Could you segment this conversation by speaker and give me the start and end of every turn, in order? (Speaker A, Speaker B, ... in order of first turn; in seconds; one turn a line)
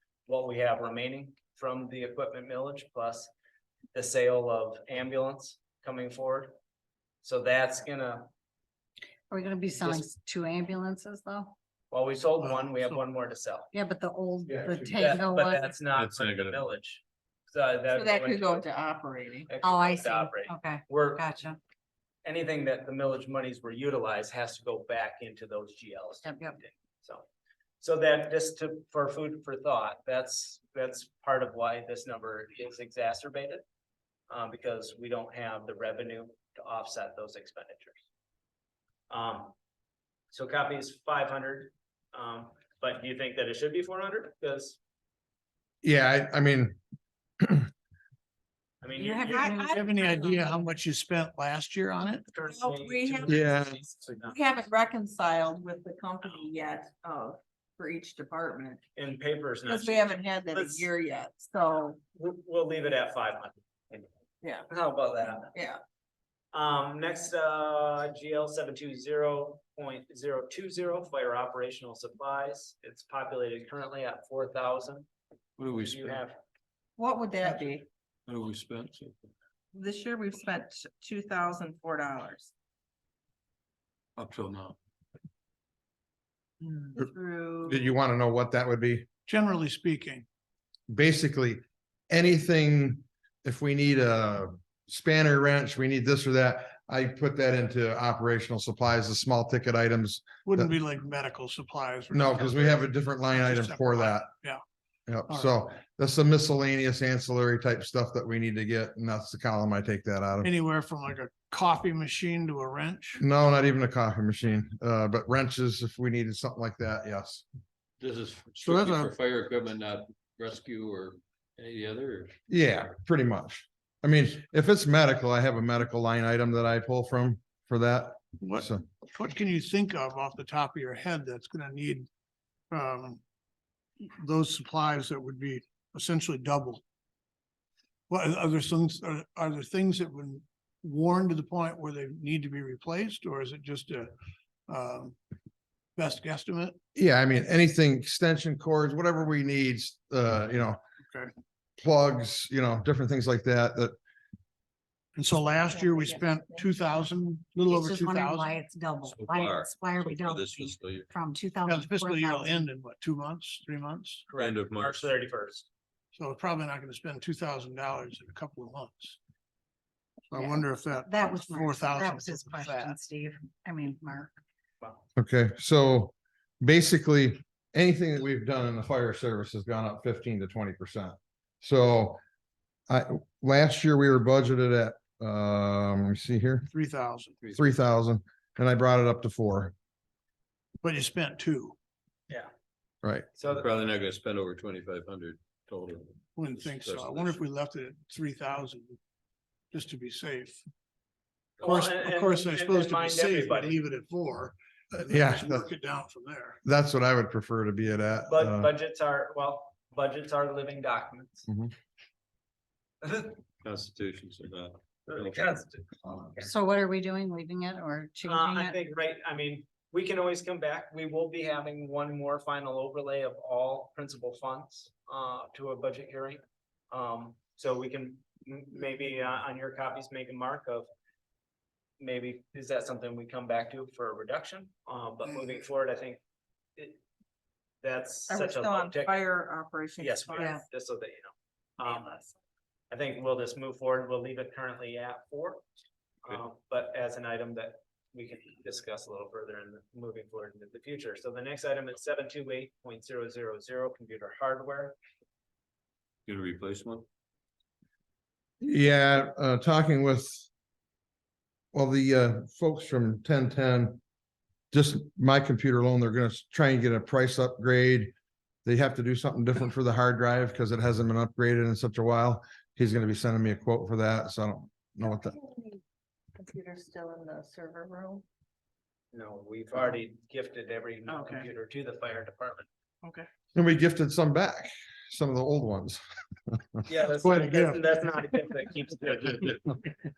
Speaker A: 0.3-3.3
Speaker A: 3.9-6.5
Speaker A: 7.2-8.3
Speaker B: 9.3-11.5
Speaker A: 11.9-13.7
Speaker C: 12.4-13.0
Speaker B: 13.7-15.7
Speaker A: 14.9-18.6
Speaker D: 16.0-16.6
Speaker E: 17.9-19.5
Speaker A: 19.5-21.3
Speaker B: 19.6-21.6
Speaker A: 22.2-27.2
Speaker B: 26.2-26.6
Speaker A: 27.8-33.6
Speaker A: 34.3-38.0
Speaker A: 39.1-39.5
Speaker A: 40.3-44.8
Speaker F: 45.8-46.8
Speaker F: 47.4-47.7
Speaker A: 48.8-49.6
Speaker B: 48.9-50.6
Speaker C: 49.3-52.3
Speaker A: 52.3-54.4
Speaker E: 52.4-58.8
Speaker F: 53.3-53.8
Speaker A: 59.0-60.9
Speaker E: 59.6-62.0
Speaker A: 62.1-64.0
Speaker E: 64.4-64.7
Speaker A: 64.7-65.5
Speaker E: 65.5-65.8
Speaker A: 66.5-75.0
Speaker D: 75.6-76.2
Speaker A: 75.7-76.4
Speaker E: 77.0-77.8
Speaker D: 78.3-79.3
Speaker E: 79.7-82.5
Speaker D: 84.2-84.7
Speaker E: 86.7-87.9
Speaker F: 87.6-89.1
Speaker C: 89.3-90.2
Speaker F: 90.9-100.7
Speaker C: 100.4-104.6
Speaker F: 102.1-104.3
Speaker F: 105.1-110.5
Speaker C: 110.4-113.2
Speaker F: 113.2-117.4
Speaker D: 118.0-122.3
Speaker C: 118.6-119.1
Speaker F: 122.5-128.9
Speaker C: 128.4-132.1
Speaker C: 132.7-133.2
Speaker C: 134.0-136.8
Speaker C: 138.1-144.1
Speaker C: 144.7-145.2
Speaker C: 145.9-146.8
Speaker F: 146.9-150.8
Speaker F: 151.8-153.9
Speaker C: 155.2-158.5
Speaker E: 155.7-156.8
Speaker B: 157.7-162.7
Speaker D: 159.0-161.1
Speaker C: 161.6-164.2
Speaker A: 164.3-165.7
Speaker D: 164.4-165.1
Speaker C: 166.1-169.2
Speaker C: 170.3-173.0
Speaker B: 170.3-174.4
Speaker F: 175.2-182.2
Speaker F: 182.9-186.7
Speaker C: 186.7-187.4
Speaker F: 187.5-189.7
Speaker C: 190.8-191.8
Speaker F: 193.0-193.3
Speaker A: 193.4-193.7
Speaker D: 193.5-197.4
Speaker C: 196.3-199.0
Speaker C: 199.7-200.6
Speaker A: 201.6-203.8
Speaker C: 201.6-206.6
Speaker F: 204.9-205.7
Speaker F: 206.6-208.7
Speaker A: 208.3-211.5
Speaker A: 213.0-213.4
Speaker D: 213.6-215.4
Speaker A: 215.1-216.5
Speaker B: 216.4-218.8
Speaker A: 218.2-230.9
Speaker A: 232.0-236.2
Speaker A: 237.8-239.2
Speaker E: 238.3-240.6
Speaker A: 240.0-242.1
Speaker B: 240.4-240.6
Speaker E: 241.8-242.3
Speaker A: 242.9-245.6
Speaker A: 246.2-255.0
Speaker D: 256.2-257.1
Speaker F: 258.6-260.5
Speaker F: 261.7-264.0
Speaker F: 264.7-268.1
Speaker F: 268.6-275.4
Speaker E: 275.0-275.8
Speaker E: 276.3-278.2
Speaker A: 279.1-282.7
Speaker F: 283.5-286.8
Speaker A: 286.9-289.5
Speaker C: 287.2-287.8